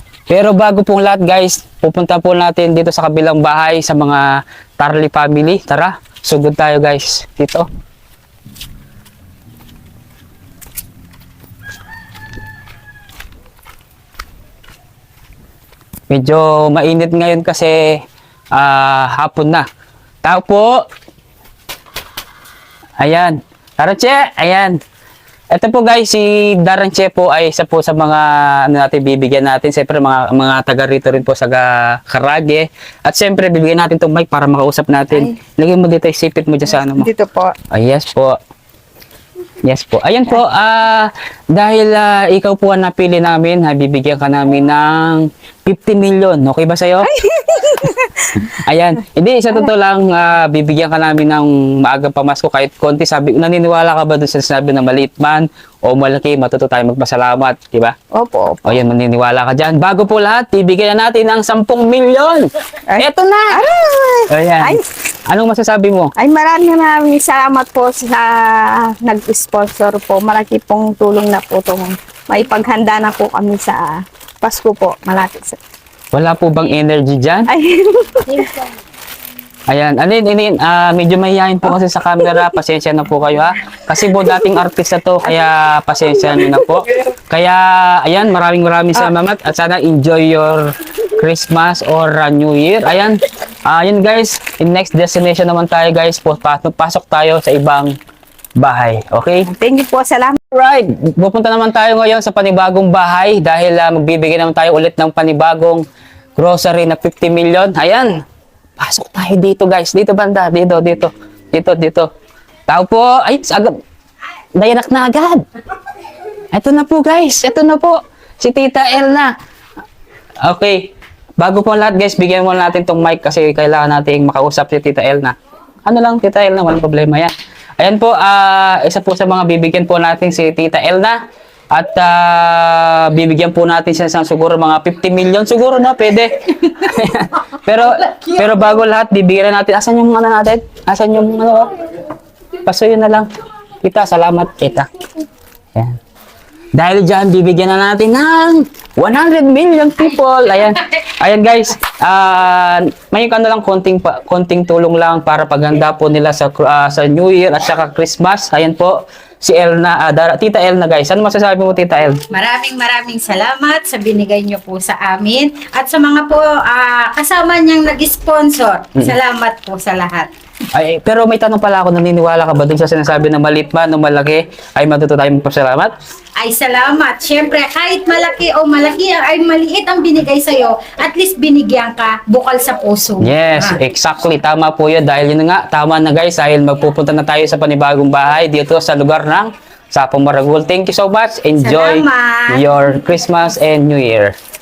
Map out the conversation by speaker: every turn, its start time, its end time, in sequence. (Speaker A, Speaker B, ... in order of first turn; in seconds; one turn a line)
Speaker A: 0.3-7.7
Speaker A: 16.1-19.7
Speaker A: 20.2-20.8
Speaker A: 23.0-24.8
Speaker A: 25.5-37.1
Speaker B: 36.7-37.6
Speaker A: 37.7-38.4
Speaker A: 39.6-47.1
Speaker B: 47.0-48.5
Speaker A: 48.4-58.0
Speaker B: 58.1-58.8
Speaker A: 58.6-63.6
Speaker B: 62.9-64.8
Speaker A: 64.3-66.1
Speaker B: 66.2-75.6
Speaker A: 76.1-77.5
Speaker B: 77.5-78.5
Speaker A: 79.7-98.0
Speaker B: 82.2-82.5
Speaker B: 86.1-86.8
Speaker A: 98.6-99.5
Speaker B: 99.5-100.4
Speaker A: 100.5-105.8
Speaker A: 106.4-108.1
Speaker A: 108.8-112.1
Speaker A: 112.7-113.8
Speaker A: 114.5-115.5
Speaker A: 116.5-119.3
Speaker A: 120.4-131.2
Speaker A: 131.7-141.7
Speaker A: 142.6-143.3
Speaker A: 143.8-144.9
Speaker A: 146.7-162.2
Speaker C: 162.3-170.3
Speaker A: 170.7-175.9
Speaker C: 176.4-183.8
Speaker A: 183.2-194.3
Speaker C: 191.6-192.7